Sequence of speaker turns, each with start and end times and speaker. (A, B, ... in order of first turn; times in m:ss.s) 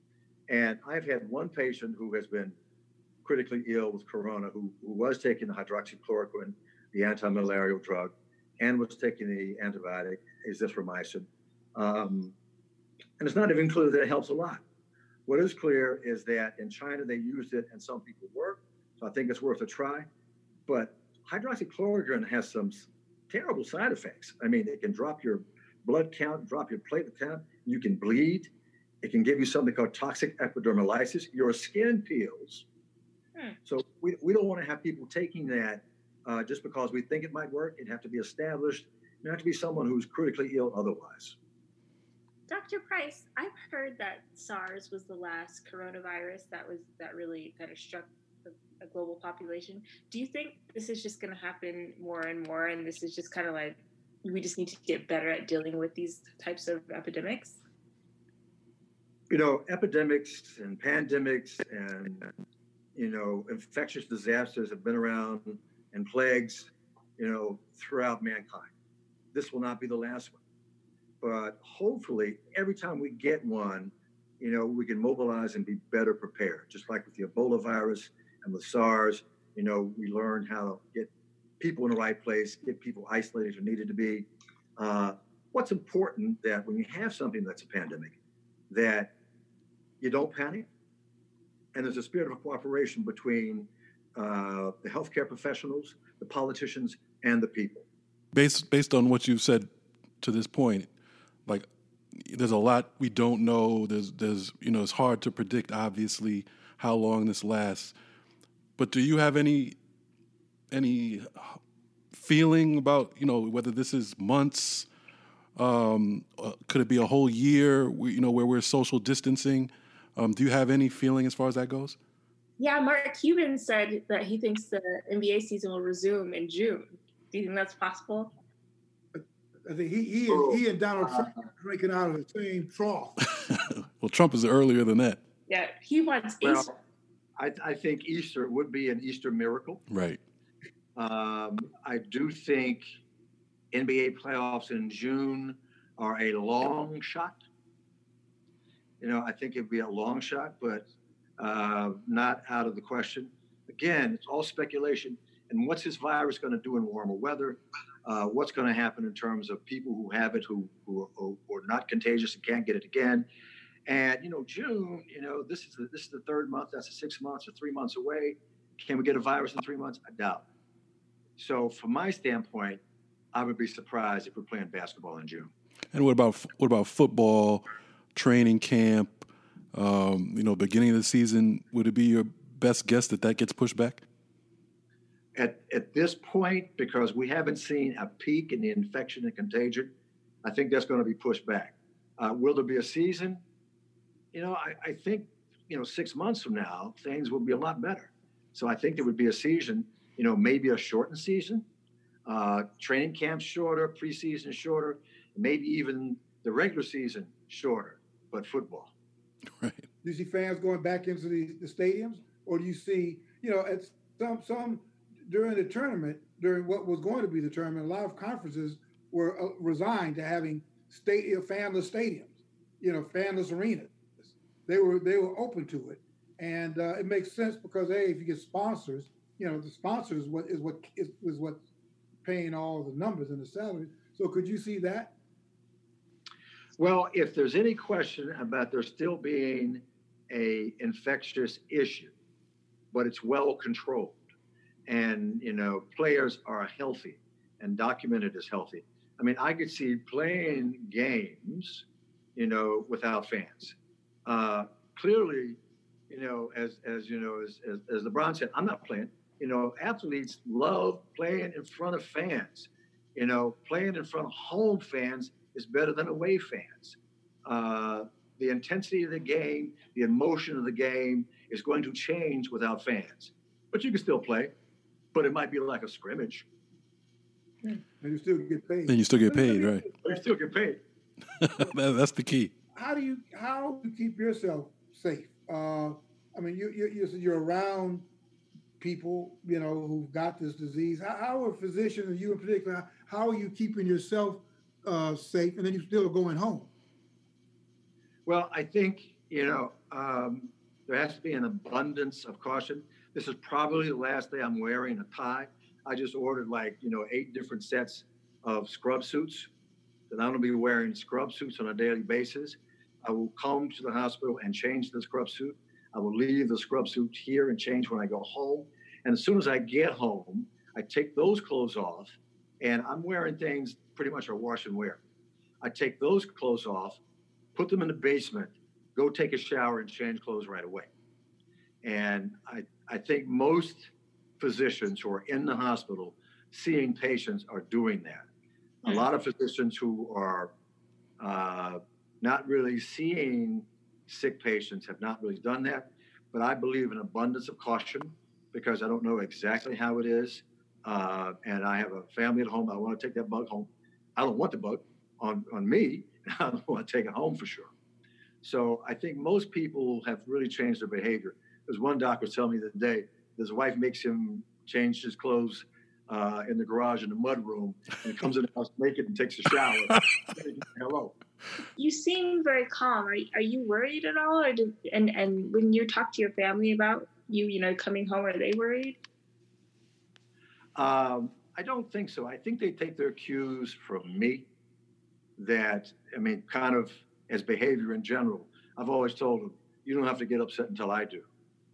0:00.5-0:02.6 A
0:03.2-0:12.3 A
0:13.2-0:14.6 A
0:15.2-0:20.1 A
0:20.7-0:28.5 A
0:29.0-0:32.6 A
0:33.6-0:41.3 A
0:42.5-0:57.6 B
0:59.3-1:02.3 A
1:02.9-1:08.7 A
1:09.3-1:10.4 A
1:11.2-1:21.1 A
1:21.6-1:28.1 A
1:28.7-1:29.1 A
1:30.0-1:30.7 A
1:31.7-1:37.8 A
1:38.3-1:39.7 C
1:40.2-1:40.9 C
1:42.2-1:47.9 C
1:48.8-1:49.8 C
1:50.7-1:51.6 C
1:52.1-1:54.9 C
1:55.6-2:02.0 C
2:02.6-2:08.3 B
2:09.1-2:13.2 D
2:10.3-2:11.3 A
2:13.5-2:15.2 C
2:15.5-2:16.7 B
2:16.4-2:16.8 A
2:17.4-2:19.8 A
2:19.9-2:20.2 C
2:21.0-2:22.8 A
2:23.7-2:27.4 A
2:29.0-2:30.8 A
2:31.4-2:43.2 A
2:43.9-2:50.4 A
2:51.4-2:52.8 A
2:53.3-2:55.5 A
2:55.9-3:04.0 C
3:05.3-3:09.9 A
3:10.4-3:13.4 A
3:14.3-3:21.6 A
3:22.2-3:28.9 A
3:29.6-3:29.8 C
3:30.0-3:51.6 D
3:52.2-3:55.1 D
3:56.8-4:02.1 A
4:02.9-4:04.2 A
4:04.9-4:11.8 A
4:12.4-4:13.7 A
4:14.2-4:34.5 A
4:35.1-4:36.4 A
4:38.0-4:40.2 D
4:38.9-4:39.9 C
4:40.0-4:40.8 A
4:41.4-4:42.5 C
4:42.7-4:48.0 D
4:48.8-4:56.7 D
4:58.3-5:09.5 A
5:10.1-5:25.0 A
5:25.6-5:27.0 A
5:27.5-5:30.9 A
5:31.8-5:38.3 A
5:38.8-5:40.5 A
5:41.2-5:57.7 A
5:58.4-6:11.2 A
6:11.8-6:19.0 B
6:20.8-6:24.4 A
6:25.4-6:31.2 A